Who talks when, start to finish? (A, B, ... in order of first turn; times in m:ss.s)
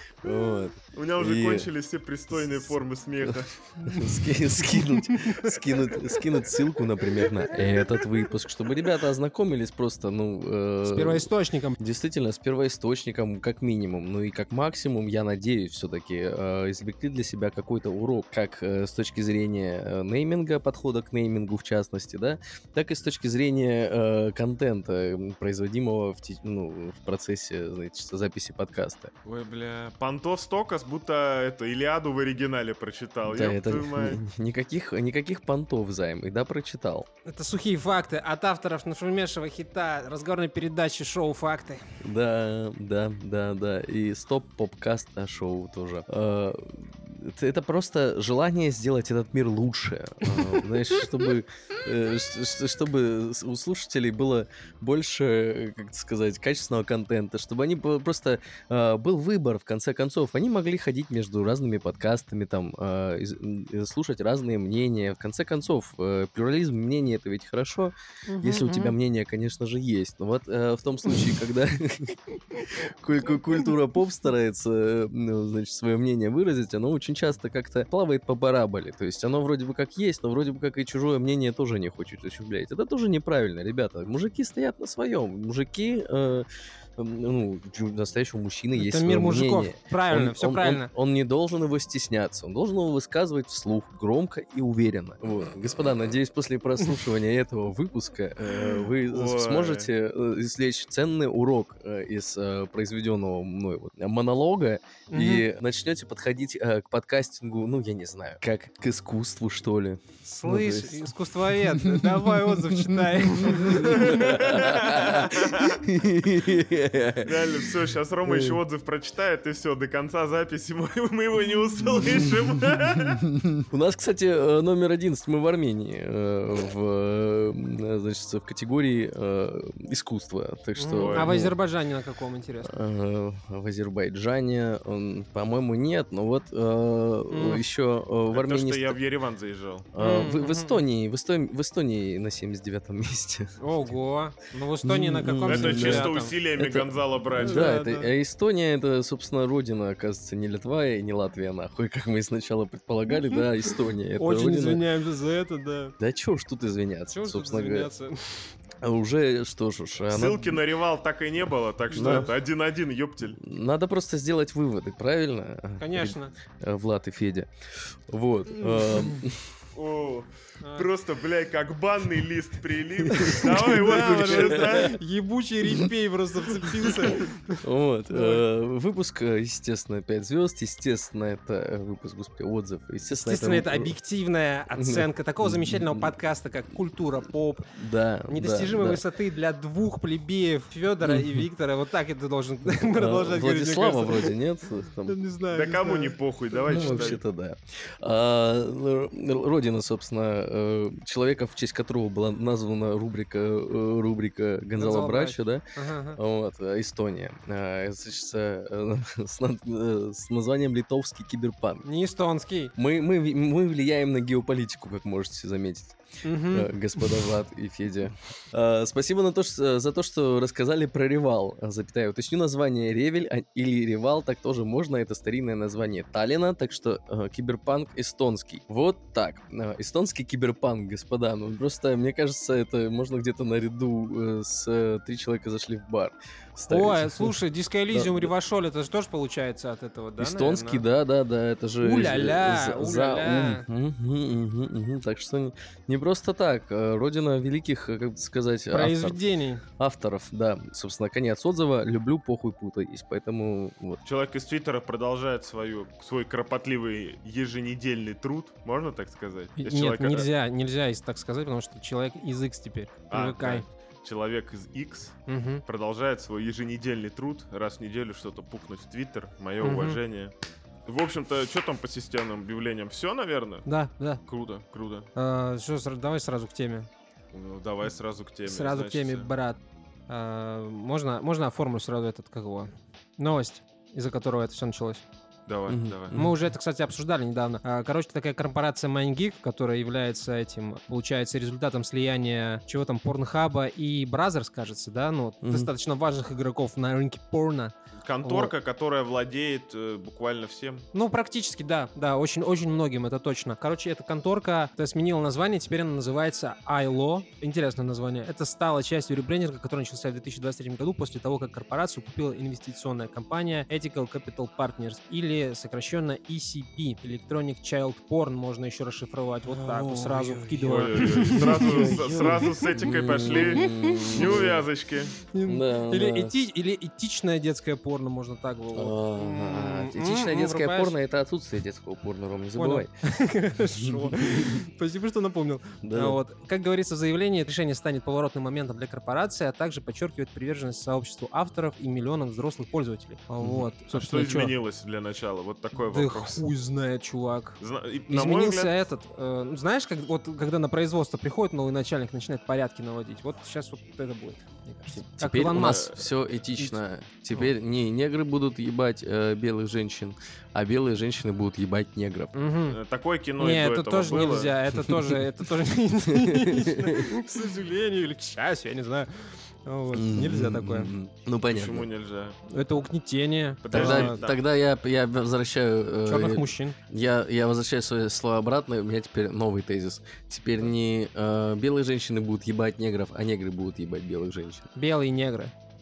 0:00.2-0:01.7 A
0:00.9-0:03.6 B
0:03.2-0:29.1 A
0:03.8-0:05.5 C
0:10.8-0:11.8 C
0:29.2-0:34.2 B
0:33.2-0:37.1 A
0:37.3-0:41.8 C
0:42.0-1:58.6 A
1:08.3-1:09.0 C
1:28.7-1:30.9 C
1:38.6-1:39.9 B
1:45.1-1:45.5 C
1:50.2-1:54.6 C
1:53.9-1:55.8 B
1:57.2-2:03.2 B
2:02.0-2:02.3 A
2:03.6-2:11.6 A
2:10.8-2:12.7 C
2:11.0-2:11.4 B
2:12.6-2:19.0 A
2:17.3-2:17.6 C
2:18.3-2:19.9 B
2:19.9-2:23.5 A
2:20.0-2:20.8 C
2:23.6-2:26.4 C
2:24.8-2:34.8 A
2:25.4-2:27.8 B
2:27.4-2:28.1 C
2:34.2-2:36.0 C
2:36.0-2:37.9 A
2:37.1-2:38.4 C
2:38.8-2:40.6 A
2:40.1-2:43.4 B
2:41.9-2:42.3 A
2:41.9-2:42.2 C
2:43.4-2:49.5 A
2:45.8-2:46.3 C
2:48.6-2:49.2 C
2:49.8-2:55.0 B
2:50.6-2:50.9 C
2:53.0-2:54.9 A
2:53.5-2:58.4 C
2:55.6-2:55.9 A
2:56.9-3:04.0 A
3:03.2-3:07.7 C
3:04.7-3:06.1 A
3:07.7-3:09.0 A
3:08.3-3:14.3 C
3:11.0-3:11.4 A
3:12.7-3:15.2 A
3:15.1-3:17.2 C
3:15.5-3:17.2 B
3:16.7-3:25.6 A
3:24.8-3:26.2 C
3:26.2-3:31.9 A
3:31.8-3:32.7 C
3:32.8-3:57.4 A
3:36.2-3:37.2 C
3:56.7-4:00.8 C
3:57.9-3:58.3 A
4:00.2-4:09.2 A
4:01.8-4:03.7 C
4:08.7-4:09.6 C
4:09.8-4:14.0 A
4:14.0-4:20.3 B
4:19.6-4:23.7 C
4:23.1-4:30.3 B
4:25.3-4:25.6 C
4:29.6-4:30.0 C
4:30.9-4:33.7 B
4:33.7-4:34.2 C
4:34.3-4:35.1 B
4:35.2-4:36.9 C
4:37.3-4:39.3 B
4:38.5-4:45.0 C
4:45.5-4:46.2 B
4:45.7-4:46.3 A
4:46.1-4:58.5 C
4:55.4-4:55.7 A
4:58.0-5:00.9 B
5:00.9-5:22.6 C
5:19.5-5:24.7 A
5:20.6-5:25.2 B
5:23.3-5:24.2 C
5:25.3-5:31.0 C
5:25.4-5:26.4 A
5:28.7-5:32.9 A
5:32.6-5:44.5 C
5:33.8-5:34.6 A
5:35.8-5:36.2 A
5:43.4-5:43.7 A
5:43.9-5:46.4 B
5:45.7-5:55.9 C
5:47.6-5:48.8 B
5:54.9-6:02.4 A
5:55.6-5:56.0 B
6:02.4-6:02.8 C
6:02.7-6:04.6 B
6:03.4-6:10.9 C
6:04.8-6:05.2 A
6:06.1-6:07.2 A
6:09.9-6:11.9 A
6:11.5-6:12.4 B
6:12.5-6:14.2 C
6:13.6-6:14.4 B
6:13.7-6:24.7 A
6:16.1-6:16.8 C
6:24.8-6:25.5 C